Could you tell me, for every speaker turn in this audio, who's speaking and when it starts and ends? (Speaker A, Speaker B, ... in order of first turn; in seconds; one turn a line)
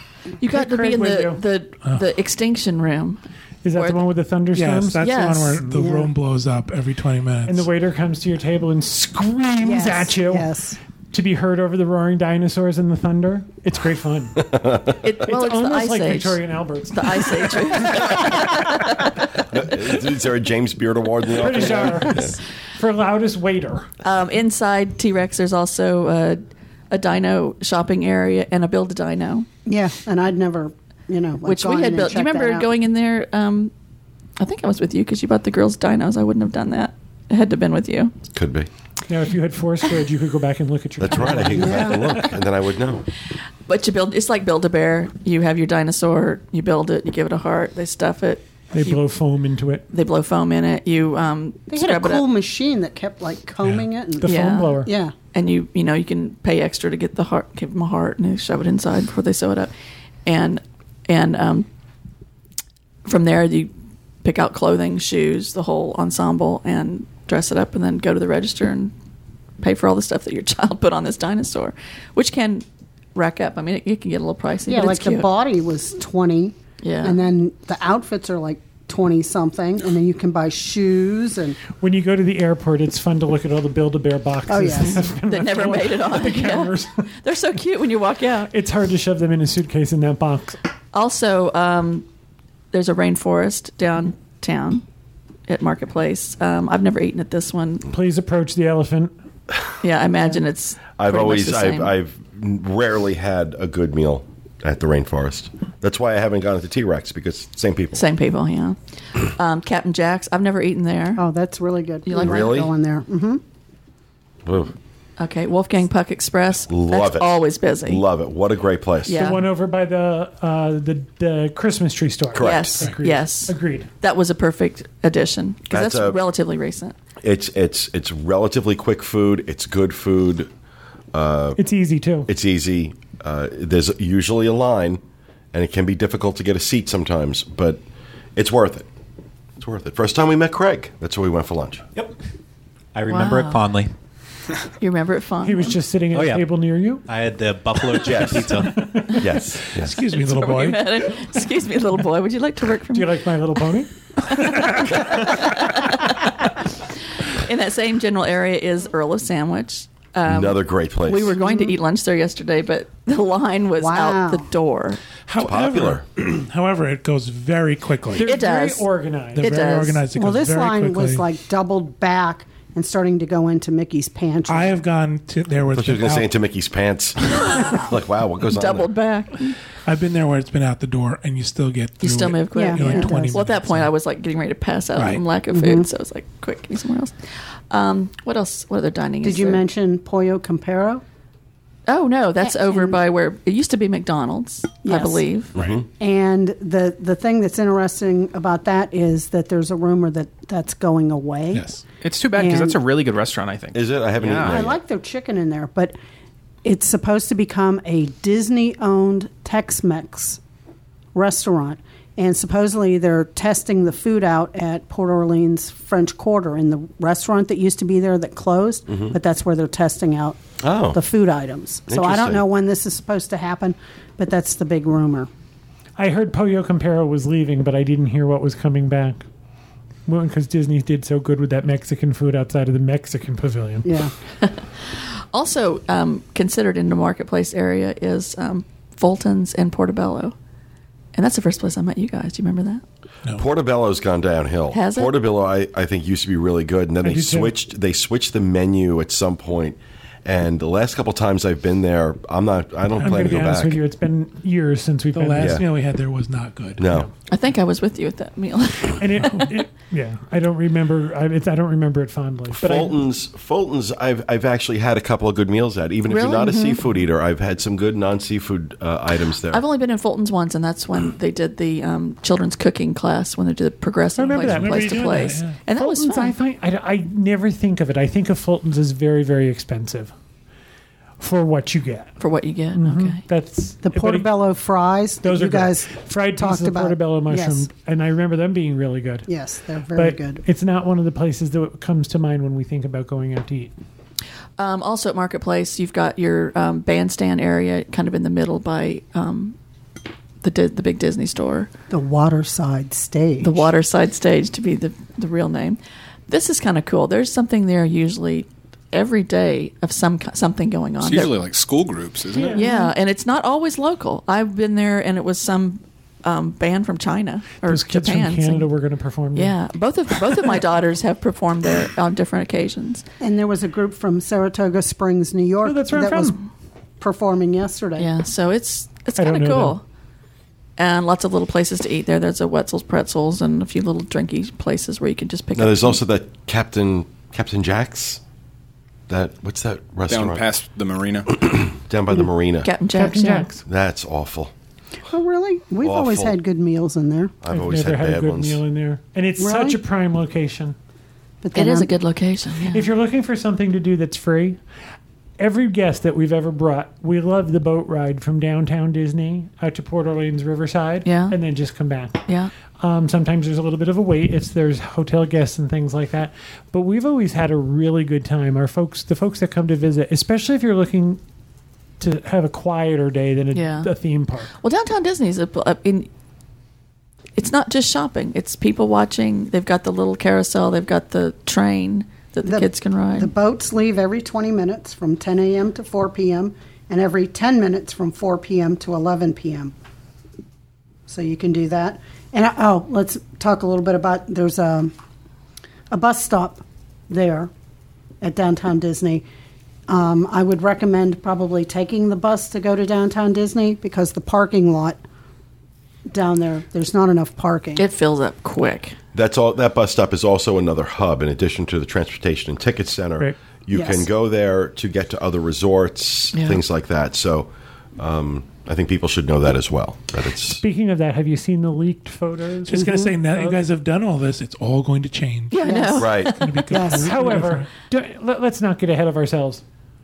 Speaker A: 0.4-1.4
Speaker B: 0.4-3.2
Speaker A: 3.6-5.0
Speaker B: 3.7-4.0
Speaker C: 4.5-7.7
Speaker B: 5.0-5.6
Speaker A: 5.6-5.9
Speaker D: 5.7-6.1
Speaker A: 7.5-10.5
Speaker D: 9.6-10.8
Speaker A: 11.1-14.5
Speaker E: 14.5-14.9
Speaker B: 15.0-19.2
Speaker A: 15.2-18.3
Speaker E: 19.5-22.3
Speaker A: 21.4-23.9
Speaker B: 24.0-29.5
Speaker D: 29.6-32.7
Speaker B: 31.4-33.7
Speaker B: 34.4-38.1
Speaker E: 38.3-38.7
Speaker A: 39.1-42.3
Speaker E: 41.0-43.0
Speaker D: 41.5-42.1
Speaker B: 43.7-49.0
Speaker A: 48.7-49.8
Speaker B: 49.9-52.2
Speaker D: 51.7-55.1
Speaker A: 54.2-54.9
Speaker B: 54.2-59.7
Speaker B: 60.2-61.7
Speaker B: 63.0-63.7
Speaker B: 64.2-68.9
Speaker B: 69.6-75.3
Speaker D: 74.7-81.6
Speaker B: 76.8-77.2
Speaker A: 81.8-86.9
Speaker D: 84.5-85.0
Speaker B: 84.7-88.5
Speaker A: 88.5-90.6
Speaker B: 90.9-92.0
Speaker B: 92.7-94.8
Speaker B: 95.5-97.9
Speaker A: 97.9-99.1
Speaker B: 99.8-101.9
Speaker E: 101.0-108.0
Speaker B: 108.0-111.2
Speaker D: 111.2-113.4
Speaker B: 112.0-112.5
Speaker E: 112.2-112.7
Speaker E: 114.5-114.7
Speaker B: 115.2-118.0
Speaker E: 116.7-119.2
Speaker A: 119.0-123.9
Speaker B: 119.1-119.5
Speaker E: 122.3-122.8
Speaker B: 122.4-126.9
Speaker E: 125.7-126.2
Speaker E: 127.2-130.5
Speaker E: 131.1-131.6
Speaker A: 131.6-132.3
Speaker E: 132.3-135.0
Speaker E: 135.5-137.8
Speaker E: 138.3-138.9
Speaker E: 139.6-141.8
Speaker F: 142.9-143.9
Speaker B: 143.1-143.6
Speaker B: 144.8-145.8
Speaker A: 145.4-147.0
Speaker F: 146.1-146.5
Speaker F: 147.1-148.9
Speaker E: 148.0-149.9
Speaker A: 148.2-149.4
Speaker C: 149.7-150.8
Speaker B: 150.0-153.2
Speaker A: 152.9-155.2
Speaker B: 154.2-165.0
Speaker E: 160.2-161.3
Speaker D: 161.4-161.7
Speaker D: 163.8-164.5
Speaker C: 165.3-168.3
Speaker E: 165.4-166.0
Speaker A: 168.1-169.6
Speaker B: 168.2-170.0
Speaker C: 169.3-171.2
Speaker D: 170.1-174.7
Speaker C: 174.5-176.3
Speaker E: 175.7-178.9
Speaker B: 178.5-179.6
Speaker C: 179.8-183.9
Speaker B: 182.0-187.1
Speaker D: 182.5-183.4
Speaker C: 184.9-185.2
Speaker D: 185.5-185.9
Speaker B: 187.7-189.6
Speaker D: 189.2-191.0
Speaker B: 191.9-195.5
Speaker D: 192.4-193.0
Speaker D: 194.8-195.2
Speaker E: 195.5-195.8
Speaker D: 196.0-201.7
Speaker C: 201.5-201.8
Speaker G: 202.0-204.6
Speaker D: 202.3-202.8
Speaker E: 203.7-204.8
Speaker D: 204.4-205.9
Speaker D: 206.6-210.4
Speaker D: 211.1-220.4
Speaker E: 218.9-219.1
Speaker E: 220.6-221.0
Speaker D: 220.9-225.3
Speaker E: 221.9-222.4
Speaker A: 226.0-229.2
Speaker A: 230.1-233.9
Speaker D: 233.8-234.1
Speaker B: 234.4-240.3
Speaker B: 241.1-242.8
Speaker E: 243.3-253.8
Speaker B: 244.7-245.1
Speaker A: 247.0-247.5
Speaker C: 253.0-253.7
Speaker A: 253.0-255.6
Speaker C: 255.1-256.9
Speaker E: 255.4-255.6
Speaker E: 256.8-257.1
Speaker B: 257.3-259.3
Speaker A: 258.9-263.0
Speaker E: 262.5-269.6
Speaker B: 266.1-266.8
Speaker B: 269.5-276.4
Speaker A: 274.2-275.2
Speaker C: 274.2-275.6
Speaker A: 275.7-280.1
Speaker A: 281.2-282.1
Speaker B: 282.2-283.2
Speaker A: 282.7-284.3
Speaker D: 283.8-287.7
Speaker A: 285.2-289.3
Speaker D: 289.3-290.4
Speaker A: 289.9-293.7
Speaker B: 294.6-299.6
Speaker B: 300.4-301.7
Speaker D: 301.9-303.7
Speaker B: 303.4-311.3
Speaker H: 311.0-312.6
Speaker A: 312.3-312.7
Speaker B: 312.5-318.7
Speaker D: 312.6-312.9
Speaker A: 317.7-319.5
Speaker B: 319.3-323.0
Speaker D: 323.2-326.4
Speaker A: 325.6-326.4
Speaker D: 327.0-328.1
Speaker B: 328.0-329.8
Speaker A: 329.2-329.8
Speaker B: 330.8-336.0
Speaker E: 335.5-338.2
Speaker E: 339.1-340.4
Speaker H: 340.1-341.4
Speaker E: 341.3-342.7
Speaker B: 342.6-343.5
Speaker A: 342.9-343.6
Speaker E: 343.6-344.5
Speaker D: 345.1-347.3
Speaker E: 345.8-346.4
Speaker E: 347.4-348.6
Speaker A: 347.5-350.8
Speaker D: 349.4-349.8
Speaker D: 351.4-351.9
Speaker B: 351.5-352.9
Speaker A: 352.7-354.6
Speaker A: 355.4-362.2
Speaker B: 361.0-361.4
Speaker A: 362.8-371.2
Speaker A: 372.0-374.5
Speaker B: 373.5-373.9
Speaker B: 374.6-376.1
Speaker B: 377.4-383.3
Speaker D: 382.4-389.7
Speaker D: 391.1-394.9
Speaker D: 395.9-397.5
Speaker D: 398.2-399.2
Speaker D: 399.9-405.0
Speaker D: 406.1-407.8
Speaker B: 407.8-409.0
Speaker E: 409.1-420.6
Speaker D: 413.7-414.1
Speaker B: 416.3-416.6
Speaker A: 420.6-423.6
Speaker C: 422.7-425.6
Speaker D: 422.7-423.1
Speaker B: 425.5-426.6
Speaker D: 425.6-426.1
Speaker E: 426.0-426.3
Speaker C: 426.2-427.7
Speaker D: 426.7-427.4
Speaker A: 426.7-429.6